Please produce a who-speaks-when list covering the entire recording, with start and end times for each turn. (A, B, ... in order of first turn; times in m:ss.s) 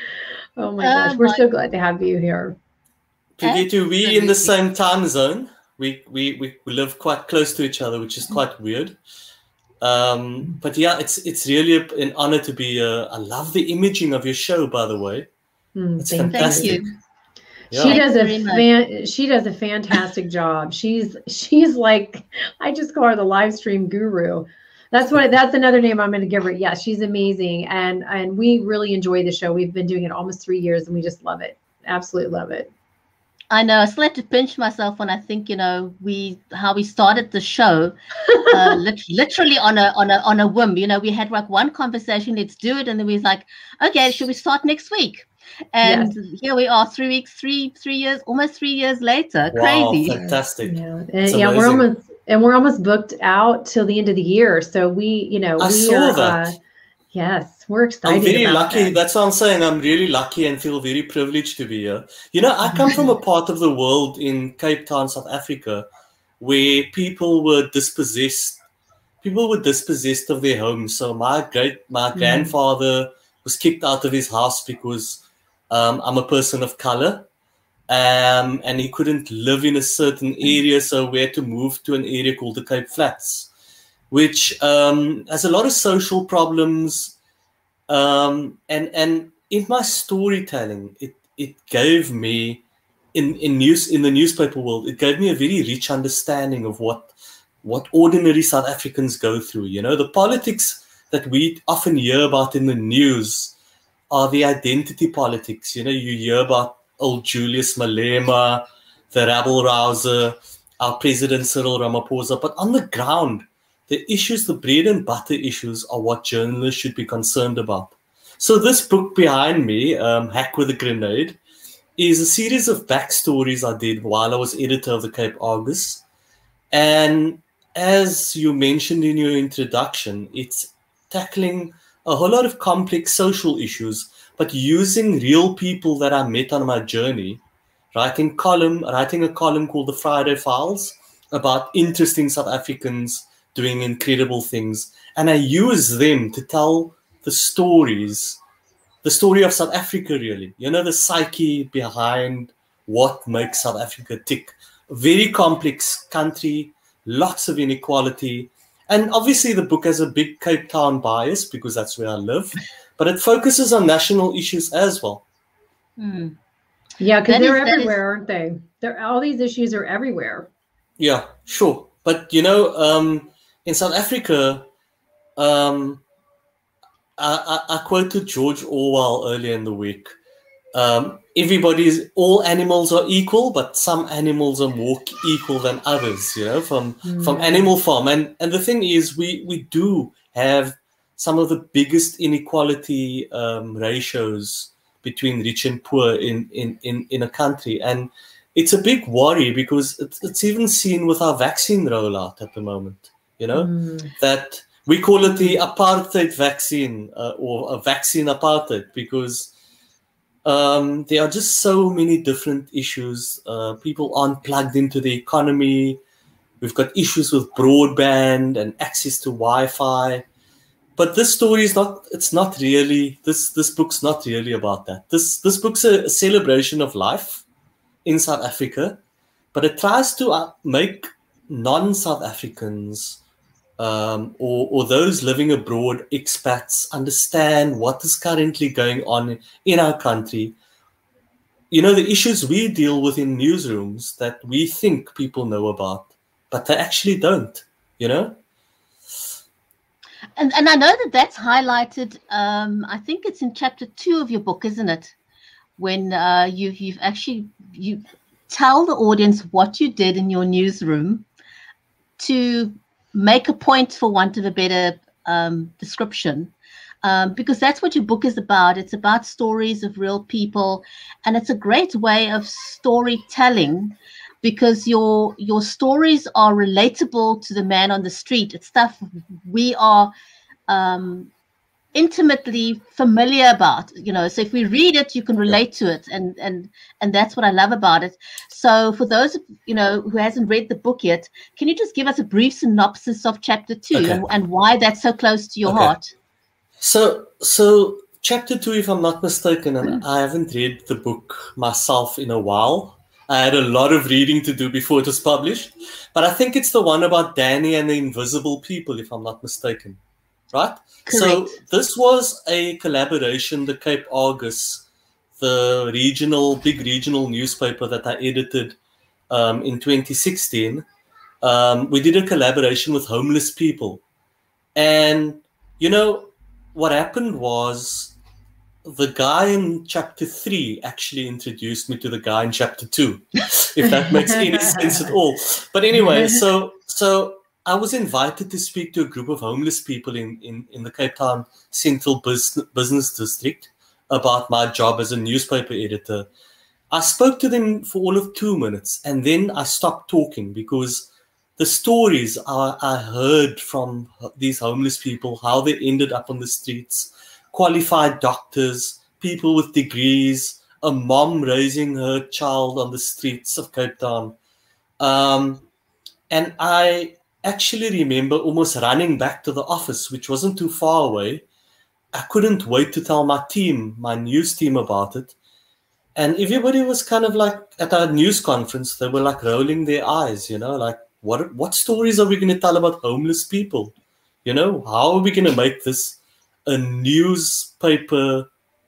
0:00.6-0:02.6 A
0:00.8-0:01.4 B
0:03.4-0:09.0 C
0:03.4-0:04.5 B
0:09.8-0:15.3 C
0:15.8-0:16.9 A
0:16.0-0:16.8 C
0:16.3-0:16.9 B
0:17.7-0:18.0 C
0:17.7-0:32.7 A
0:17.8-0:18.7 B
0:33.5-0:50.2 B
0:38.3-0:38.8 A
0:45.8-0:46.1 A
0:49.5-0:51.9 C
0:50.1-0:56.6 A
0:55.6-0:56.6 C
0:57.1-0:59.0 A
0:58.0-1:05.9 C
1:02.7-1:03.1 A
1:06.4-1:08.6 C
1:09.2-1:17.3 C
1:12.2-1:12.5 A
1:17.9-1:23.5 C
1:24.1-1:27.2 C
1:27.9-1:43.6 C
1:44.1-2:01.4 C
2:02.0-2:06.0 C
2:06.7-2:28.4 C
2:29.0-2:45.2 C
2:46.0-2:46.4 B
2:47.0-2:50.5 A
2:47.2-2:48.0 B
2:51.0-2:54.7 C
2:55.4-2:56.0 C
2:57.2-3:00.1 C
3:00.7-3:29.5 C
3:07.0-3:07.7 A
3:23.5-3:24.1 A
3:25.2-3:25.6 A
3:30.4-3:36.0 C
3:36.6-3:40.2 C
3:41.0-3:47.4 C
3:48.0-3:49.0 C
3:49.5-3:53.2 C
3:53.8-4:00.6 C
4:01.7-4:08.4 C
4:10.4-4:15.1 B
4:15.8-4:21.3 B
4:22.2-4:26.5 B
4:27.0-4:40.1 B
4:40.7-4:41.3 B
4:42.0-4:56.1 B
4:53.9-4:54.2 C
4:55.7-4:56.0 C
4:56.8-5:10.0 C
5:10.5-5:14.9 C
5:11.1-5:11.6 B
5:15.4-5:18.8 C
5:19.3-5:20.9 C
5:21.4-5:24.0 C
5:24.8-5:28.2 C
5:28.9-5:46.3 C
5:34.0-5:35.0 A
5:46.9-6:04.4 C
6:05.0-6:05.7 C
6:06.3-6:11.4 C
6:12.1-6:15.4 C
6:16.2-6:28.5 C